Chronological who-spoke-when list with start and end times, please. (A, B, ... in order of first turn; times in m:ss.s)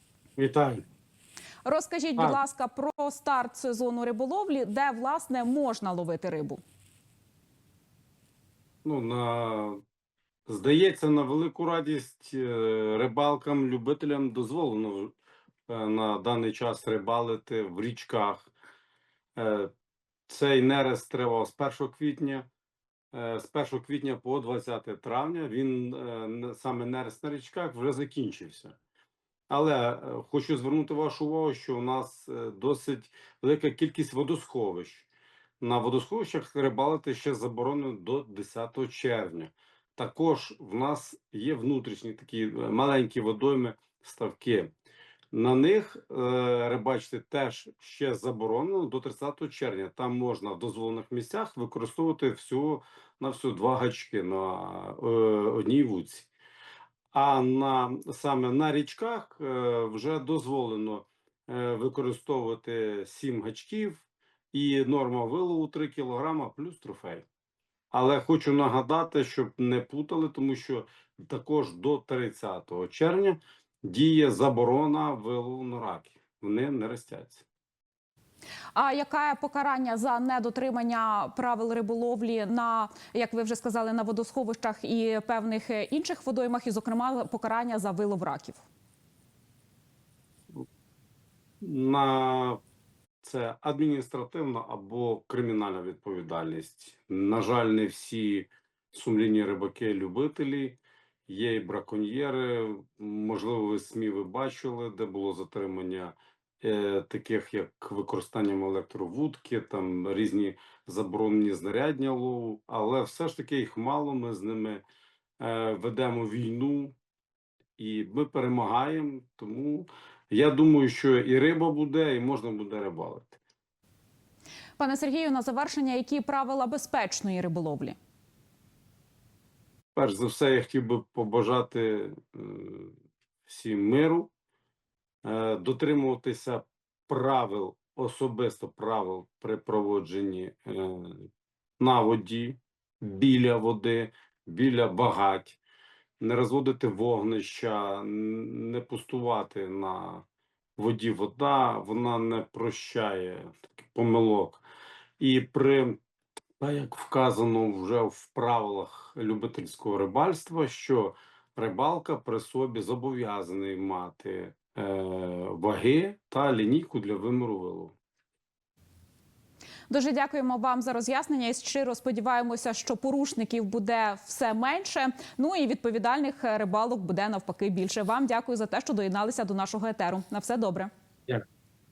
0:00.4-0:00.8 A
0:01.6-0:06.6 B
0:08.8-0:09.8 A
0:10.5-0:15.2 A
0:15.7-0:18.5 A
0:19.4-0:19.7 A
0:20.3-0:22.5 A
0:23.1-0:28.8 A
0:29.5-0:35.1 A
0:35.6-0:44.7 A
0:45.3-0:56.3 A
0:57.1-1:07.2 A
1:07.9-1:17.4 A
1:18.8-1:28.7 B
1:31.6-1:32.6 A
1:33.2-1:54.8 A
1:55.4-1:57.0 A
1:57.8-2:03.4 A
2:04.8-2:08.0 B
2:10.0-2:14.3 A
2:15.2-2:21.3 A
2:21.8-2:25.6 A
2:26.2-2:30.3 A
2:30.8-2:34.6 A
2:35.2-2:36.0 A
2:36.6-2:48.0 A
2:49.9-3:00.9 B